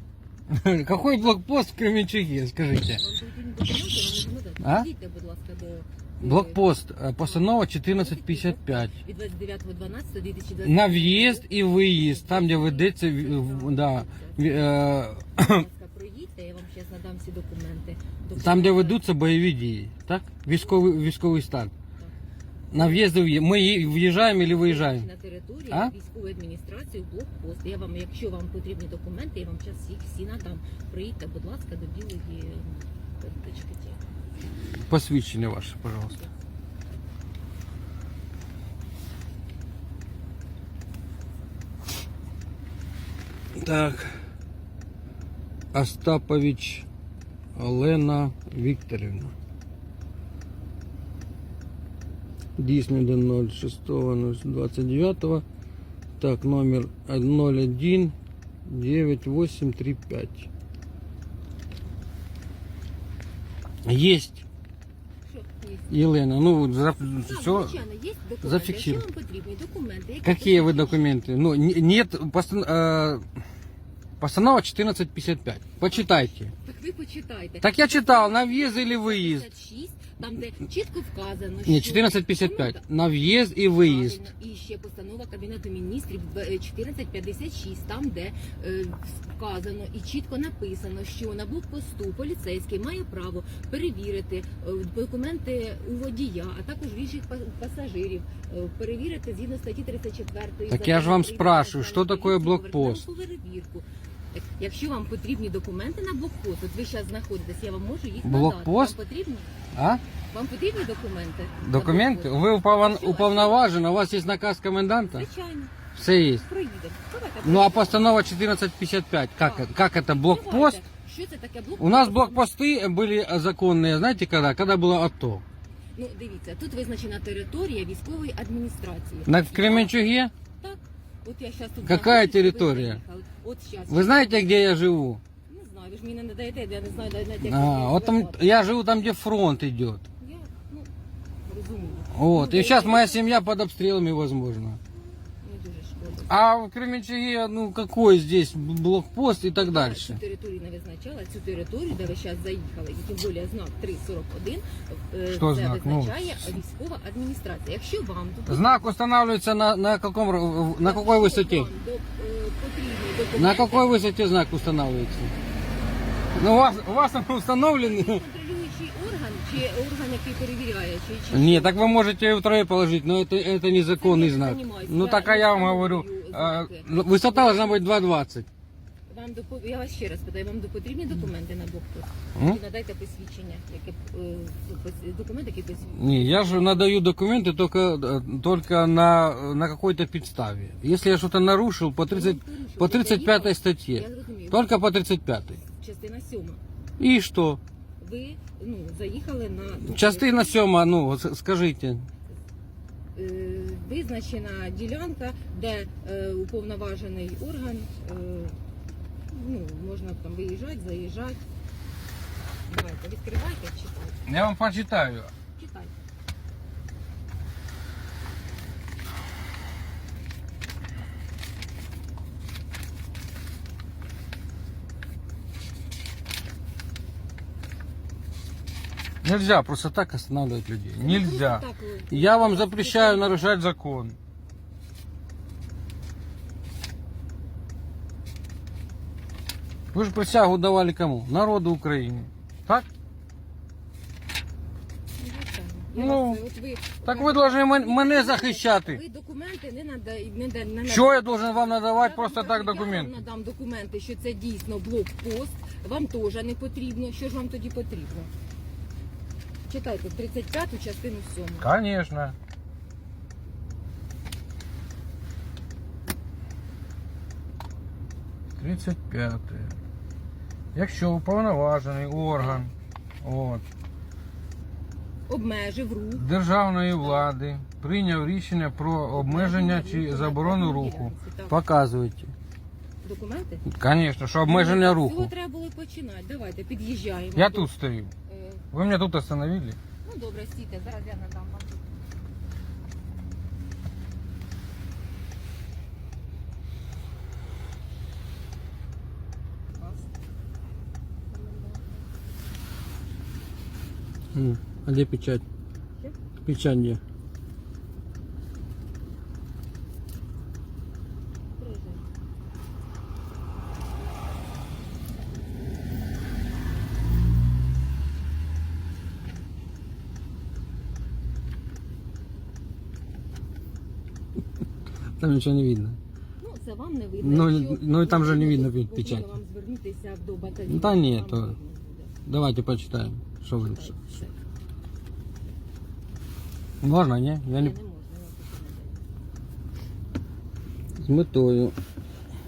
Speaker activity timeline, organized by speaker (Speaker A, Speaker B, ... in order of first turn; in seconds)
Speaker A: 0.5-3.0, 4.6-4.9, 6.2-8.9, 10.6-15.6, 18.4-21.7, 22.7-25.1, 34.5-36.2, 43.5-44.2, 45.7-46.9, 47.5-49.3, 52.6-55.4, 56.2-60.5, 63.8-64.4, 65.9-67.8, 68.4-69.0, 70.2-73.2, 74.2-76.5, 77.6-79.5, 81.7-84.2, 100.7-103.0, 108.2-108.9, 109.7-110.0, 111.6-115.3, 115.9-116.4, 117.4-120.8, 121.8-125.4, 129.2-130.3, 131.8-133.0, 133.9-135.2, 137.4-140.0, 142.1-144.8, 146.3-150.2, 155.3-156.5, 158.5-161.7, 163.3-165.3, 166.3-168.2, 171.3-178.5, 185.9-195.6, 197.0-197.6, 199.8-202.1, 214.2-215.3, 229.2-234.2, 239.9-242.9, 245.9-246.4, 247.0-249.0, 250.8-253.2, 261.6-262.3, 268.6-269.7, 270.7-272.7, 273.2-273.6, 276.1-282.3, 283.7-285.3, 287.4-288.1, 288.7-289.8, 304.3-305.4, 306.4-307.0, 325.2-326.0, 327.2-329.3, 330.7-331.5, 332.3-333.9, 336.8-337.7, 341.0-341.8
Speaker B: 2.9-6.6, 7.2-14.7, 15.4-19.0, 22.7-23.1, 24.1-34.0, 65.3-65.9, 67.2-71.1, 75.8-82.8, 83.8-109.5, 110.3-113.7, 115.0-115.8, 116.3-118.0, 119.4-122.5, 125.9-130.0, 130.6-134.7, 135.5-138.4, 140.2-140.9, 141.4-143.2, 145.4-146.3, 149.6-158.9, 160.8-164.0, 167.8-171.8, 174.0-177.9, 179.1-186.9, 192.1-194.8, 195.6-196.6, 198.0-200.6, 203.1-208.6, 209.3-211.4, 212.7-214.2, 215.6-215.9, 231.0-233.6, 245.2-258.3, 259.7-261.7, 272.2-272.7, 275.3-276.3, 277.0-277.3, 279.1-281.6, 283.0-283.6, 284.4-287.7, 288.3-288.6, 290.0-291.9, 299.8-300.1, 301.3-302.0, 311.6-312.0, 326.4-332.1, 333.6-334.4, 337.5-339.1